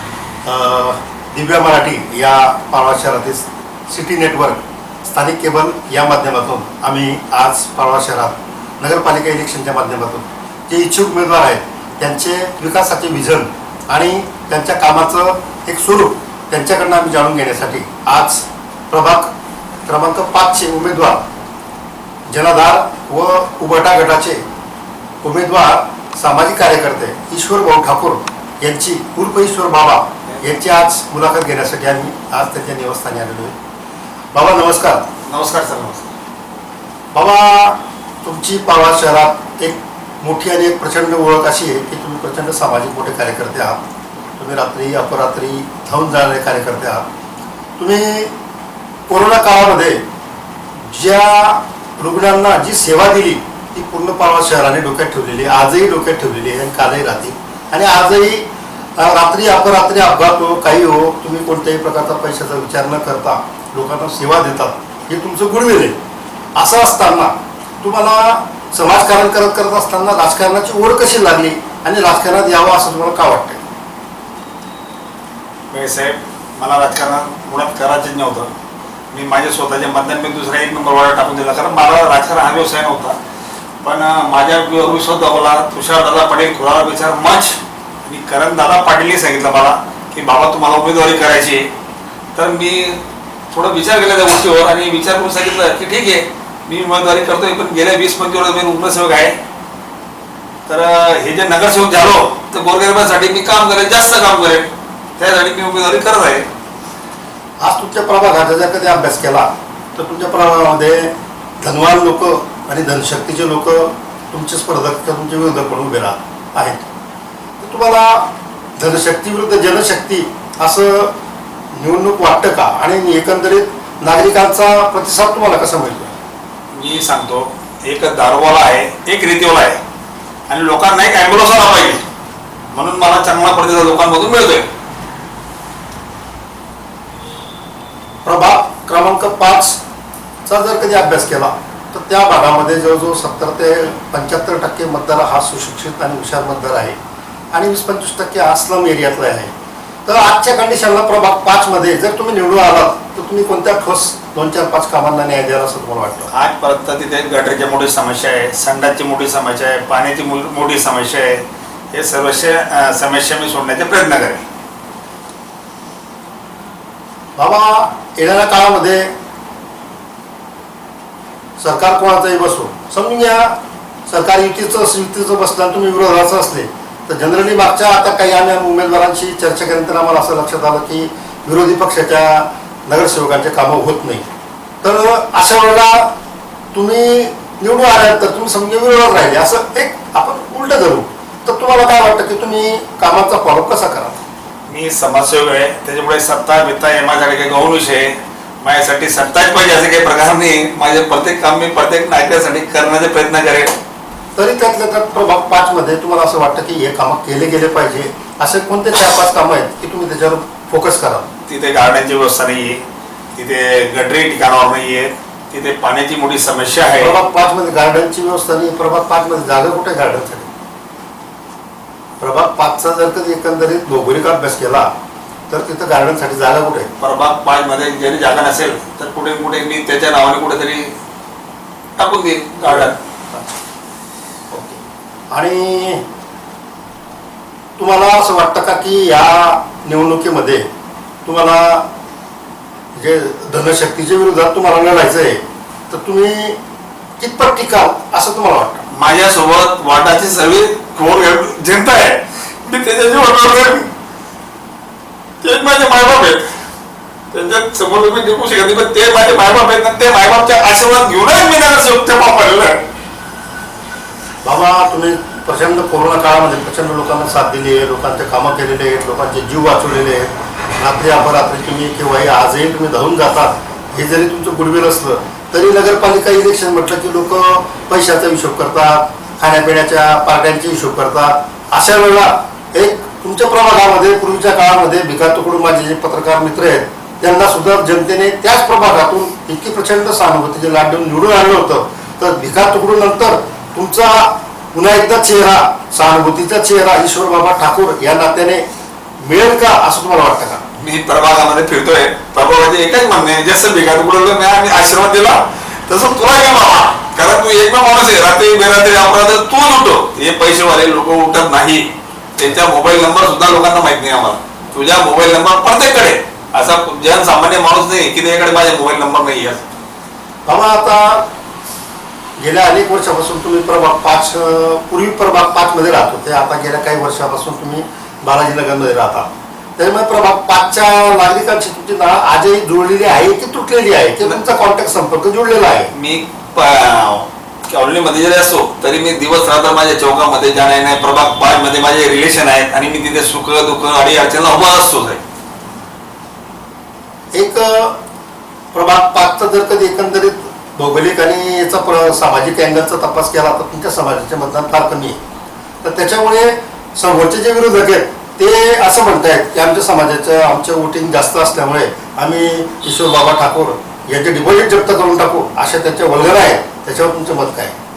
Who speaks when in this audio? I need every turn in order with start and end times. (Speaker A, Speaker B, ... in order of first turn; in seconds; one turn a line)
Speaker A: 0.5-19.3
Speaker A: 19.9-21.2
Speaker A: 22.3-24.4
Speaker A: 25.2-33.5
Speaker A: 34.3-35.1
Speaker B: 35.2-36.1
Speaker A: 37.1-43.8
Speaker A: 44.4-47.1
Speaker A: 47.8-48.3
Speaker A: 49.1-50.0
Speaker A: 50.9-66.0
Speaker A: 66.5-73.6
Speaker B: 75.7-78.5
Speaker B: 79.1-83.2
Speaker B: 83.8-91.7
Speaker B: 92.3-99.4
Speaker B: 100.7-106.5
Speaker A: 107.6-116.9
Speaker A: 117.6-121.1
Speaker A: 121.7-126.2
Speaker B: 126.7-129.8
Speaker B: 130.5-132.0
Speaker B: 132.7-134.7
Speaker A: 138.2-139.8
Speaker A: 140.5-147.0
Speaker A: 147.5-149.5
Speaker A: 150.1-156.3
Speaker B: 156.3-164.4
Speaker A: 167.4-169.1
Speaker A: 171.6-184.2
Speaker A: 184.8-186.1
Speaker A: 186.7-194.2
Speaker B: 194.7-203.7
Speaker A: 204.4-211.3
Speaker B: 211.5-212.8
Speaker B: 213.3-217.2
Speaker A: 217.0-220.5
Speaker A: 222.2-224.9
Speaker A: 225.5-226.9
Speaker B: 227.0-230.9
Speaker B: 232.0-233.4
Speaker A: 234.5-234.8
Speaker A: 235.3-236.0
Speaker A: 237.8-240.7
Speaker A: 241.2-241.9
Speaker A: 242.9-246.6
Speaker A: 247.2-248.9
Speaker B: 248.9-253.9
Speaker B: 255.4-256.4
Speaker B: 257.3-262.9
Speaker A: 264.4-298.6
Speaker A: 299.2-300.6
Speaker B: 300.8-319.6
Speaker A: 320.5-321.3
Speaker A: 322.4-335.9
Speaker B: 335.9-345.2
Speaker A: 347.3-348.0
Speaker A: 348.7-355.2
Speaker A: 355.8-367.8